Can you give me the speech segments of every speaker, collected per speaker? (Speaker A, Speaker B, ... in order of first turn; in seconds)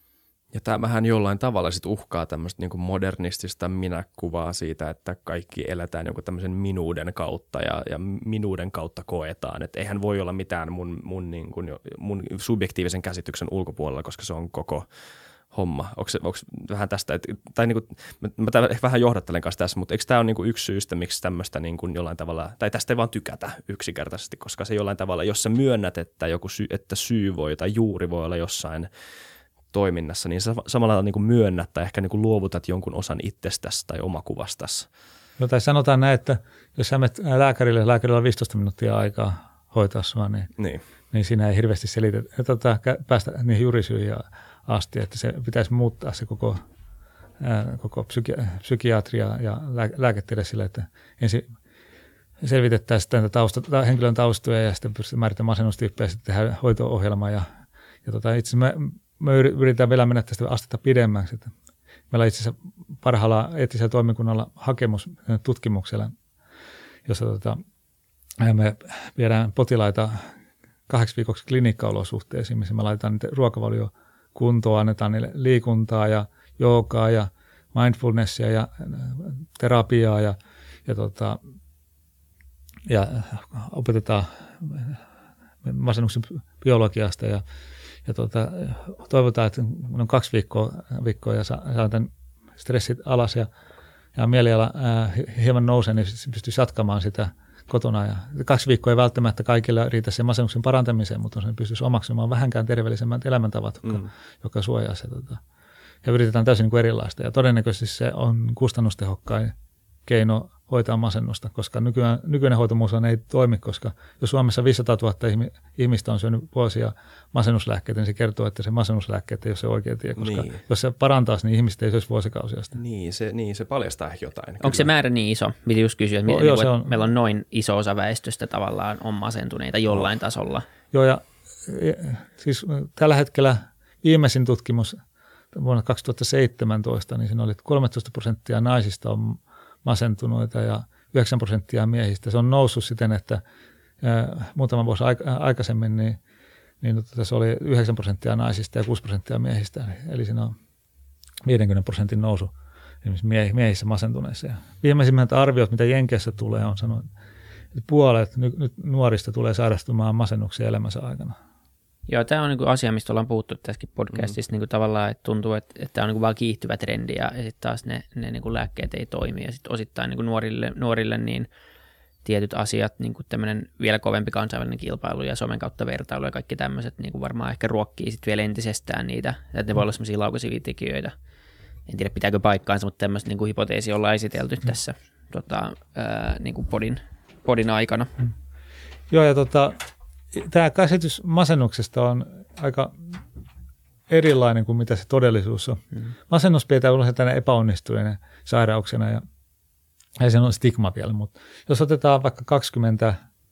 Speaker A: 0.5-14.9, 15.5-28.9, 29.7-34.9, 40.6-40.8, 120.2-120.6, 122.8-124.9
Speaker B: 35.4-40.5, 41.1-46.6, 47.4-51.5, 52.4-57.5, 58.0-61.5, 62.1-66.1, 67.1-67.6, 68.4-70.3, 70.9-81.4, 82.9-85.0, 85.6-87.4, 88.0-93.5, 94.2-105.4, 106.0-109.5, 110.1-122.8, 126.3-126.9, 130.9-135.0, 135.5-143.4, 144.0-146.2, 146.8-150.6, 151.4-152.5, 153.0-157.1, 157.8-161.4, 189.1-189.8, 190.3-193.2, 194.1-199.2, 200.2-203.2
Speaker C: 124.6-130.7, 162.1-171.5, 172.2-181.2, 181.9-188.1